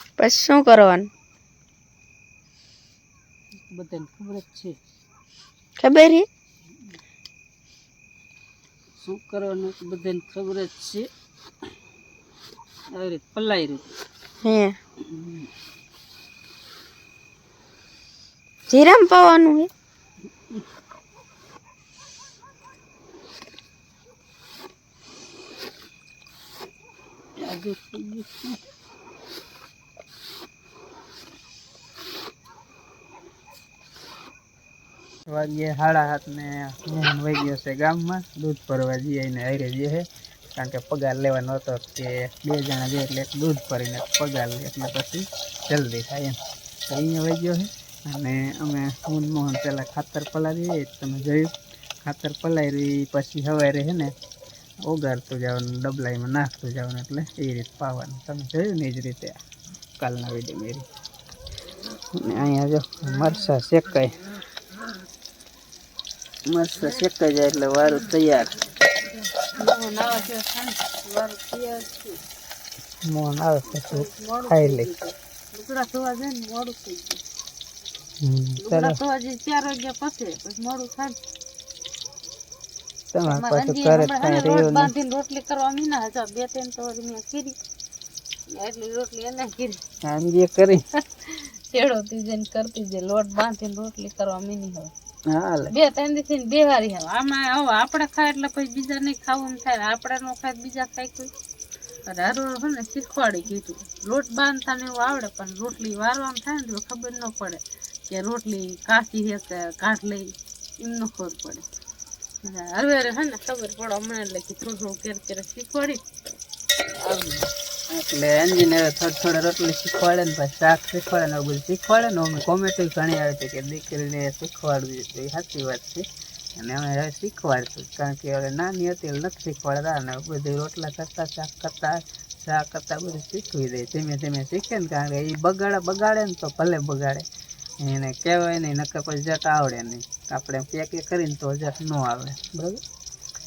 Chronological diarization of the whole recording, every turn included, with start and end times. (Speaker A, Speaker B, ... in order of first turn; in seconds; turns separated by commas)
Speaker A: 0.2-1.1, Speaker B: 3.6-4.8, Speaker A: 5.8-6.3, Speaker B: 9.0-11.1, Speaker B: 12.9-13.8, Speaker A: 14.4-14.8, Speaker B: 15.1-15.5, Speaker A: 18.7-19.7, Speaker B: 27.4-28.6, Speaker B: 35.3-46.4, Speaker B: 46.9-51.5, Speaker B: 52.0-54.1, Speaker B: 54.9-59.4, Speaker B: 60.0-60.9, Speaker B: 62.1-64.2, Speaker B: 66.5-68.6, Speaker C: 69.5-72.2, Speaker B: 73.0-74.9, Speaker C: 73.7-77.2, Speaker B: 78.2-79.0, Speaker C: 78.6-81.2, Speaker B: 83.1-84.9, Speaker C: 83.3-87.6, Speaker C: 88.5-89.8, Speaker B: 90.0-90.8, Speaker C: 91.0-94.9, Speaker B: 95.3-95.7, Speaker C: 95.7-101.3, Speaker C: 102.1-111.7, Speaker C: 112.4-116.0, Speaker B: 117.0-126.0, Speaker B: 126.6-137.2, Speaker B: 137.8-142.8